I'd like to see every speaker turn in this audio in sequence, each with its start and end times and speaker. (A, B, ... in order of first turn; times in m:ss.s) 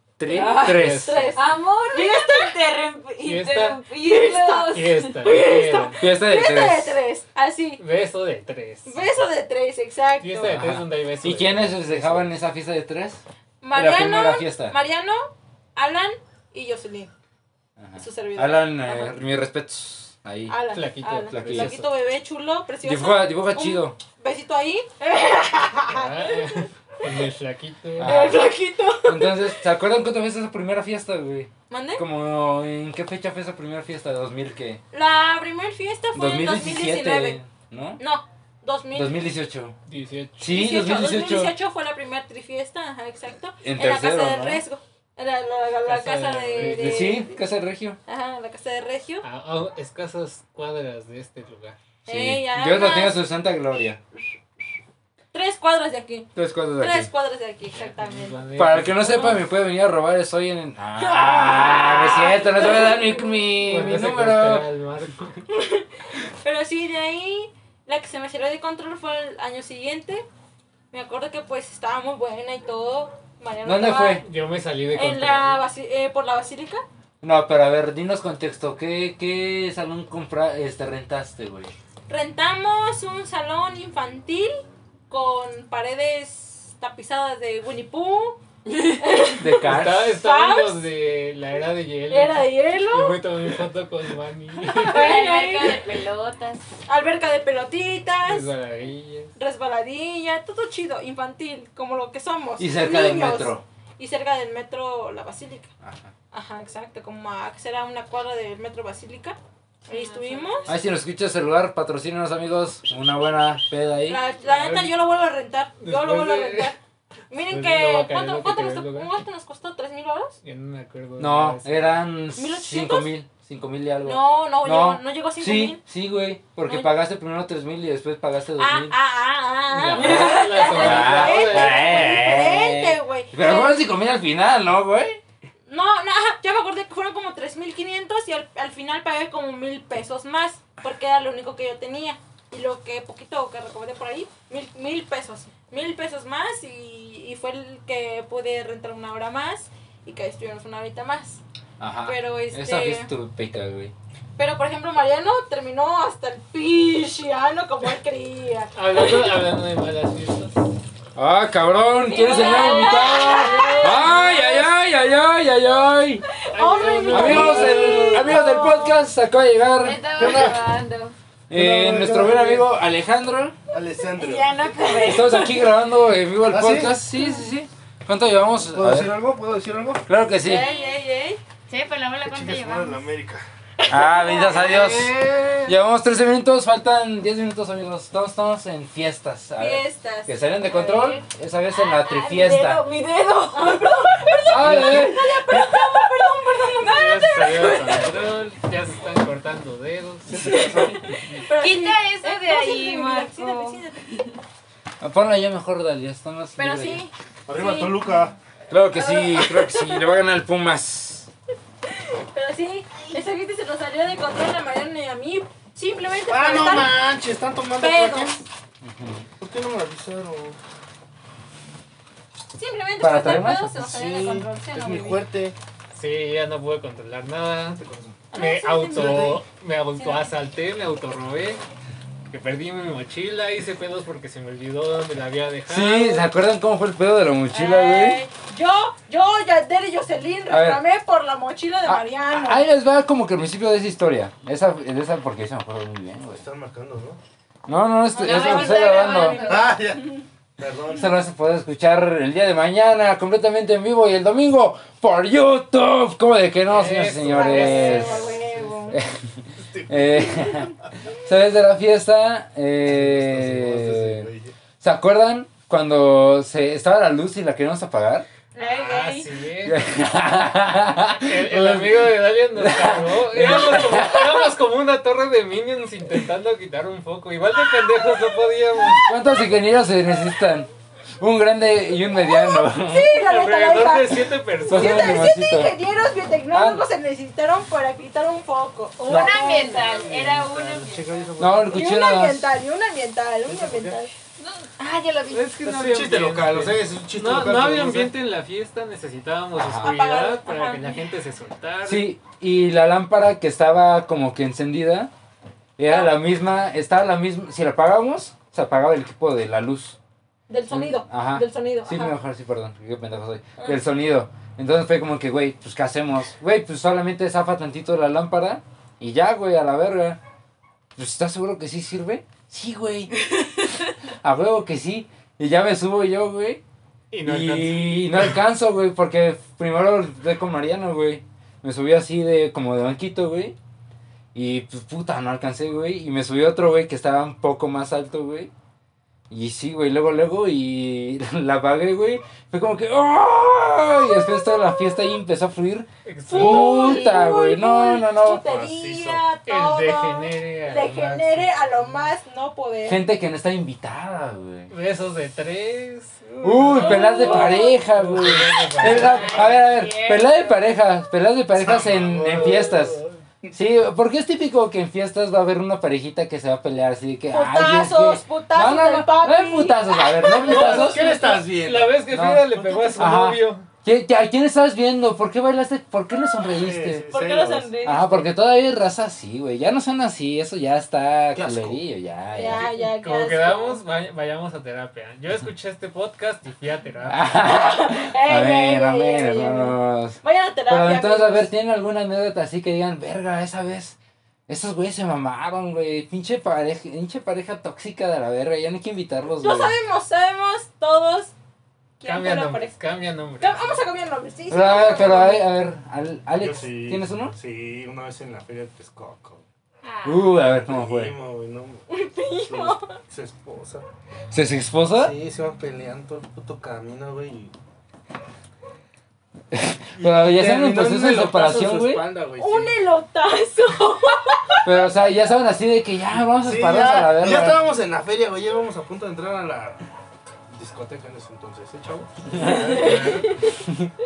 0:00.2-0:01.3 A
0:00.3-0:00.8 B
0:00.3-0:02.6 C
0:00.5-0:01.3 D
0:01.3-0:05.8 B
0:03.2-0:03.8 D
0:04.0-0:07.8 C
0:04.7-0:06.0 D
0:06.0-0:07.0 A
0:07.8-0:09.1 D
0:08.8-0:10.6 C
0:10.2-0:12.3 D
0:10.5-0:14.7 A
0:13.6-0:17.1 C
0:17.8-0:20.6 A
0:18.0-0:19.2 C
0:20.5-0:26.6 C
0:20.7-0:21.9 D
0:21.1-0:21.8 A
0:22.8-0:24.0 A
0:25.9-0:28.2 D
0:28.0-0:28.5 A
0:28.0-0:29.5 C
0:29.0-0:34.8 A
0:31.7-0:32.0 C
0:34.9-0:37.4 C
0:36.1-0:38.0 A
0:38.0-0:39.2 C
0:38.9-0:39.8 A
0:39.9-0:40.5 D
0:40.4-0:41.6 A
0:40.5-0:47.4 C
0:43.6-0:44.6 A
0:45.8-0:47.2 D
0:46.6-0:48.0 A
0:48.0-0:49.2 C
0:49.2-0:51.8 D
0:52.0-0:53.2 C
0:52.0-0:54.0 A
0:55.3-0:58.4 C
0:56.4-0:57.1 A
0:57.7-0:59.4 D
0:58.6-1:04.7 A
1:01.0-1:03.3 C
1:03.6-1:05.4 D
1:05.5-1:05.9 C
1:06.4-1:10.2 C
1:10.9-1:14.2 C
1:13.6-1:14.2 A
1:14.2-1:15.6 D
1:14.9-1:16.8 C
1:17.2-1:21.7 A
1:22.1-1:30.8 C
1:29.4-1:30.2 A
1:29.6-1:35.1 D
1:32.1-1:33.2 C
1:34.7-1:35.9 C
1:34.8-1:36.7 B
1:36.8-1:38.5 C
1:38.2-1:39.3 D
1:39.4-1:45.7 C
1:42.6-1:43.6 A
1:45.8-1:46.1 A
1:46.3-1:50.7 C
1:49.9-1:50.8 B
1:50.7-1:54.2 A
1:54.1-1:56.8 C
1:54.4-1:54.9 D
1:55.8-1:56.8 D
1:57.3-2:00.4 C
1:57.5-1:59.1 D
2:00.4-2:02.0 D
2:01.2-2:09.0 A
2:02.4-2:03.1 C
2:04.0-2:05.8 C
2:06.6-2:06.9 C
2:08.6-2:13.8 C
2:09.7-2:12.2 D
2:09.9-2:15.2 A
2:15.7-2:31.4 C
2:31.8-2:33.9 A
2:32.0-2:33.1 C
2:34.4-2:38.7 C
2:38.7-2:40.7 D
2:41.1-2:46.2 A
2:42.0-2:44.7 C
2:42.3-2:44.0 B
2:46.5-2:48.0 D
2:46.5-2:49.0 C
2:47.1-2:50.0 A
2:47.6-2:48.4 B
2:49.8-2:51.2 B
2:50.1-2:50.6 E
2:51.5-2:53.6 A
2:51.5-2:52.7 E
2:53.7-2:54.7 E
2:54.1-2:55.7 B
2:55.0-2:59.1 A
2:56.5-2:57.0 E
2:58.7-3:00.0 E
3:00.1-3:00.7 A
3:00.4-3:01.4 C
3:00.4-3:01.0 B
3:01.7-3:03.1 B
3:02.2-3:03.4 E
3:03.8-3:04.8 C
3:03.9-3:12.8 A
3:04.7-3:05.7 D
3:09.6-3:10.4 C
3:10.6-3:14.1 B
3:12.9-3:18.1 C
3:14.5-3:15.5 A
3:15.0-3:16.0 B
3:16.8-3:20.7 D
3:20.2-3:21.1 E
3:20.5-3:24.0 C
3:21.5-3:24.3 B
3:25.0-3:27.0 A
3:26.6-3:28.2 C
3:27.5-3:28.4 E
3:28.7-3:31.3 A
3:28.9-3:30.0 C
3:31.9-3:37.0 C
3:36.3-3:38.4 E
3:37.8-3:38.4 C
3:38.8-3:39.3 A
3:39.4-3:40.6 E
3:42.5-3:45.3 C
3:43.0-3:43.8 A
3:43.8-3:45.6 E
3:45.9-3:51.6 D
3:47.8-3:48.2 E
3:48.3-3:49.4 C
3:48.9-3:49.3 E
3:50.0-3:50.3 C
3:52.3-3:56.2 D
3:55.7-3:58.2 A
3:57.5-4:02.6 C
4:00.5-4:00.8 A
4:01.8-4:06.4 A
4:06.3-4:07.2 E
4:07.6-4:09.4 A
4:08.1-4:10.0 C
4:08.1-4:09.8 B
4:09.3-4:11.1 E
4:10.9-4:18.3 A
4:16.6-4:18.7 D
4:17.3-4:19.0 C
4:18.9-4:24.3 A
4:19.6-4:20.8 E
4:22.8-4:24.5 E
4:24.8-4:28.3 A
4:28.6-4:29.2 B
4:28.6-4:29.2 C
4:28.6-4:29.8 D
4:29.6-4:34.5 A
4:31.2-4:39.1 D
4:39.1-4:43.2 A
4:42.1-4:49.8 C
4:43.1-4:45.3 D
4:44.7-4:45.8 A
4:46.5-4:46.8 A
4:49.0-4:51.3 B
4:49.6-4:50.5 D
4:49.7-4:51.9 E
4:51.4-4:52.5 A
4:51.7-4:54.1 C
4:53.5-4:53.9 E
4:54.4-4:55.5 B
4:55.3-5:02.1 D
4:55.6-4:58.1 E
4:59.5-4:59.9 A
4:59.8-5:01.0 C
5:01.8-5:05.1 A
5:05.8-5:10.0 A
5:05.9-5:06.1 C
5:10.5-5:12.2 C
5:10.7-5:20.2 A
5:21.0-5:23.1 A
5:24.2-5:26.6 A
5:27.1-5:28.3 D
5:27.2-5:33.6 A
5:34.3-5:38.5 A
5:39.3-5:48.5 A
5:46.0-5:47.0 D
5:46.3-5:53.0 C
5:48.4-5:49.2 E
5:49.4-5:51.8 D
5:52.8-5:54.7 A
5:54.7-5:59.5 D
5:56.4-6:03.0 A
5:56.8-5:57.8 C
5:58.9-6:00.6 B
6:01.6-6:03.6 E
6:03.5-6:11.1 A
6:07.3-6:10.6 C
6:10.4-6:12.0 E
6:10.4-6:13.7 D
6:12.1-6:17.1 A
6:16.5-6:17.7 E
6:17.1-6:18.3 C
6:17.8-6:22.7 A
6:21.3-6:21.8 E
6:22.3-6:23.8 C
6:22.7-6:27.5 D
6:27.1-6:34.0 A
6:27.4-6:31.5 C
6:34.5-6:39.8 A
6:39.4-6:41.3 C
6:42.0-6:42.7 C
6:42.0-6:43.8 D
6:43.4-6:45.5 C
6:44.5-6:47.3 A
6:46.4-6:49.4 E
6:49.8-6:50.3 B
6:50.0-6:51.1 A
6:50.4-6:51.8 E
6:51.9-6:53.0 C
6:52.4-6:53.8 E
6:54.3-6:55.1 A
6:54.9-6:57.5 E
6:59.5-7:02.0 A
6:59.9-7:02.8 E
7:02.4-7:04.8 C
7:04.6-7:07.6 A
7:06.4-7:09.8 E
7:10.5-7:13.4 E
7:12.3-7:13.0 A
7:12.5-7:13.6 C